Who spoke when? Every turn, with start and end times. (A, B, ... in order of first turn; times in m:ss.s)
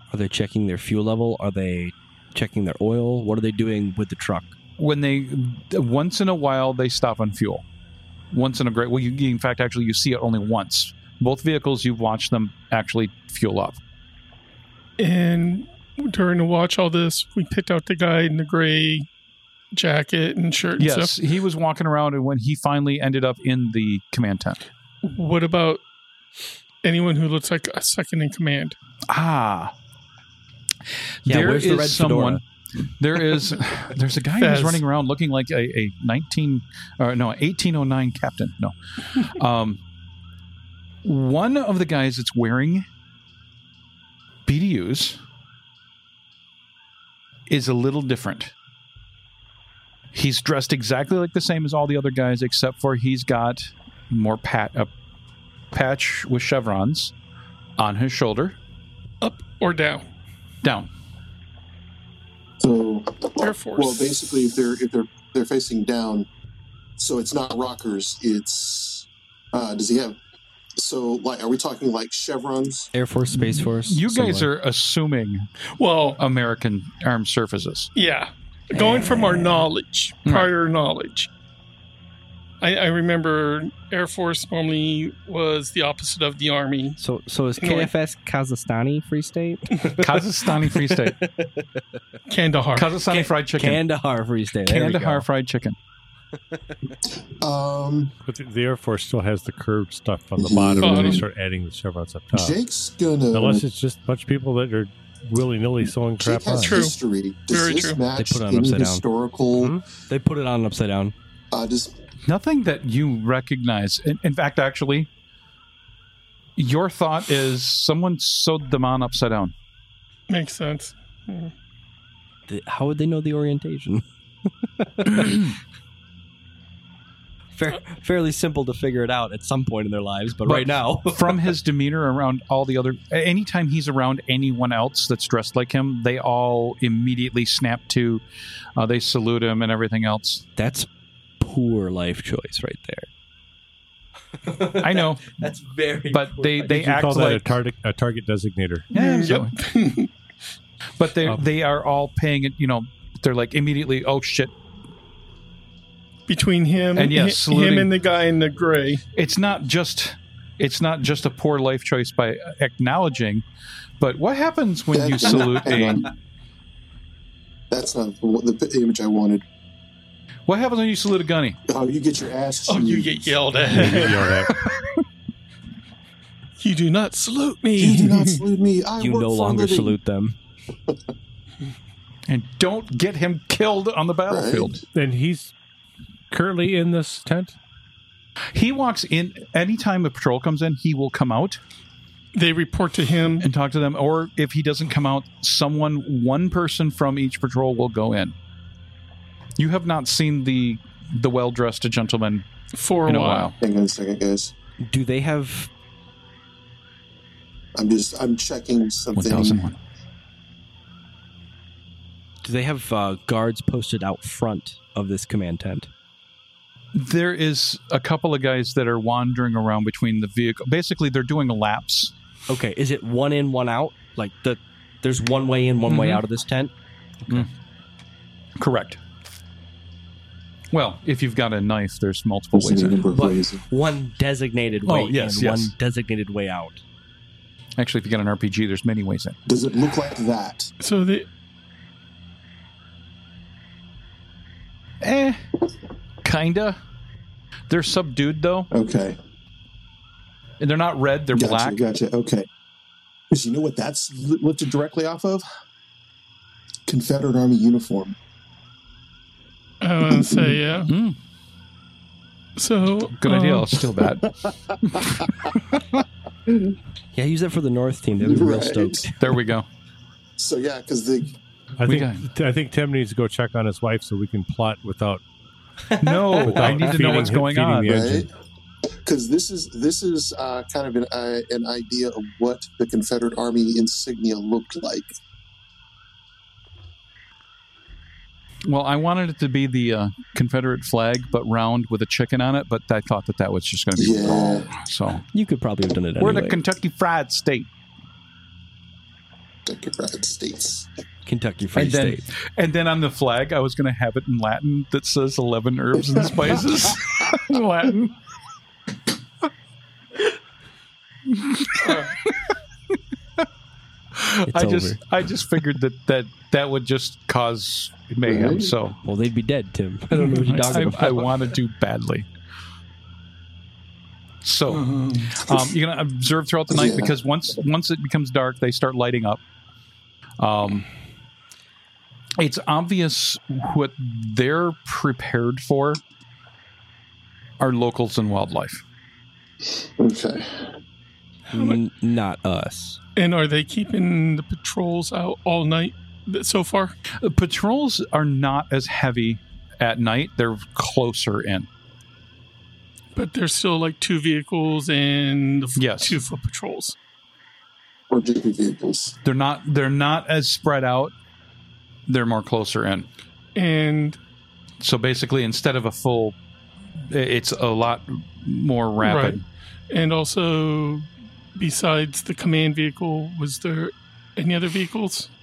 0:00.1-0:04.6 A
0:04.8-0:07.6 B
0:08.3-0:13.8 B
0:15.0-0:19.1 C
0:19.7-0:21.2 C
0:20.8-0:24.6 B
0:25.0-0:25.8 C
0:26.8-0:28.8 C
0:29.1-0:29.7 B
0:31.2-0:32.4 B
0:31.3-0:32.4 A
0:33.0-0:39.8 B
0:34.4-0:34.8 C
0:41.0-0:42.8 B
0:44.5-0:45.2 B
0:47.5-0:48.5 B
0:50.1-0:54.9 B
0:55.7-0:57.1 B
0:57.8-0:58.6 B
0:59.2-1:00.1 C
1:00.6-1:00.9 B
1:02.6-1:06.3 D
1:03.4-1:04.2 C
1:07.0-1:10.2 D
1:10.8-1:12.9 D
1:12.9-1:14.5 A
1:13.3-1:15.5 B
1:15.8-1:16.2 C
1:16.2-1:17.9 B
1:18.0-1:21.3 C
1:18.8-1:19.6 A
1:20.2-1:20.5 B
1:22.6-1:27.0 C
1:27.0-1:31.8 A
1:27.6-1:27.9 C
1:30.0-1:31.2 B
1:32.3-1:32.9 C
1:32.8-1:33.8 B
1:33.1-1:35.2 A
1:34.6-1:35.8 B
1:37.4-1:38.1 D
1:38.2-1:42.6 E
1:40.4-1:41.2 D
1:40.8-1:41.2 C
1:42.3-1:43.6 D
1:43.3-1:46.8 E
1:46.2-1:49.8 D
1:46.6-1:47.0 C
1:47.5-1:48.0 C
1:48.2-1:49.0 A
1:49.6-1:51.1 A
1:51.5-1:52.0 D
1:52.2-1:55.1 B
1:56.6-1:59.5 B
2:00.3-2:01.5 C
2:02.5-2:04.0 A
2:04.7-2:05.5 A
2:07.6-2:11.5 A
2:10.4-2:18.2 B
2:18.8-2:20.4 B
2:20.6-2:20.9 A
2:21.4-2:23.1 A
2:24.4-2:27.1 A
2:24.8-2:25.4 B
2:26.1-2:27.5 B
2:26.7-2:28.9 E
2:28.9-2:30.1 C
2:28.9-2:29.5 B
2:31.0-2:34.5 B
2:36.3-2:39.0 C
2:37.0-2:37.9 B
2:39.2-2:43.4 B
2:44.0-2:46.0 B
2:44.9-2:46.1 D
2:47.7-2:49.4 D
2:50.5-2:51.6 B
2:51.7-2:53.4 D
2:52.7-2:54.7 C
2:53.7-2:54.5 E
2:56.6-2:58.4 C
2:57.8-3:00.0 D
2:59.0-3:00.4 A
3:02.3-3:04.8 B
3:04.3-3:04.8 D
3:04.9-3:05.5 E
3:06.3-3:07.6 E
3:08.5-3:11.6 B
3:12.4-3:13.5 C
3:13.4-3:18.4 B
3:19.6-3:22.5 B
3:22.7-3:23.5 C
3:23.1-3:23.6 B
3:23.6-3:24.5 D
3:24.8-3:25.7 A
3:27.8-3:29.7 D
3:29.1-3:29.8 B
3:32.4-3:35.9 A
3:36.9-3:42.1 B
3:42.5-3:46.7 A
3:45.9-3:46.2 B
3:48.6-3:49.0 B
3:50.7-3:53.0 B
3:52.5-3:53.6 D
3:53.1-3:56.8 A
3:54.9-3:55.7 B
3:57.8-3:59.4 B
3:59.5-4:00.7 D
4:00.8-4:01.3 C
4:05.0-4:05.4 B
4:06.2-4:06.8 B
4:07.7-4:08.7 B
4:08.7-4:09.2 D
4:10.6-4:11.8 B
4:11.3-4:12.5 D
4:13.3-4:15.4 D
4:16.9-4:18.2 D
4:19.8-4:20.9 C
4:20.0-4:20.6 D
4:20.9-4:21.2 B
4:22.6-4:23.7 C
4:23.2-4:24.3 B
4:24.0-4:25.8 D
4:24.8-4:25.2 B
4:26.5-4:26.7 D
4:27.1-4:29.2 A
4:28.2-4:29.1 D
4:29.2-4:29.7 B
4:30.4-4:31.4 D
4:31.8-4:35.2 E
4:31.8-4:32.2 B
4:35.9-4:37.3 A
4:36.0-4:37.9 B
4:36.4-4:38.3 E
4:37.8-4:38.3 D
4:39.0-4:45.1 D
4:48.6-4:55.2 B
4:54.0-4:54.8 D
4:55.3-4:56.6 A
4:56.2-4:57.7 B
4:59.7-5:00.9 D
5:01.3-5:02.3 A
5:01.8-5:08.1 B
5:11.3-5:12.5 B
5:11.9-5:12.1 C
5:14.2-5:19.0 B
5:14.5-5:15.0 A
5:18.2-5:18.7 D
5:19.0-5:21.4 A
5:20.2-5:20.8 C
5:20.5-5:22.3 B
5:24.4-5:29.4 B
5:24.7-5:25.3 C
5:25.4-5:25.7 D
5:26.7-5:27.2 D
5:30.4-5:30.9 B
5:32.4-5:36.0 B
5:37.6-5:38.8 B
5:39.7-5:40.7 D
5:41.5-5:41.8 C
5:41.5-5:43.0 A
5:43.2-5:47.0 C
5:47.2-5:51.7 B
5:53.2-5:57.0 C
5:55.8-5:56.2 B
5:58.1-5:59.2 D
5:59.2-6:01.1 B
6:02.1-6:03.1 B
6:03.6-6:04.2 C
6:04.8-6:06.4 B
6:07.1-6:09.4 B
6:09.0-6:15.3 C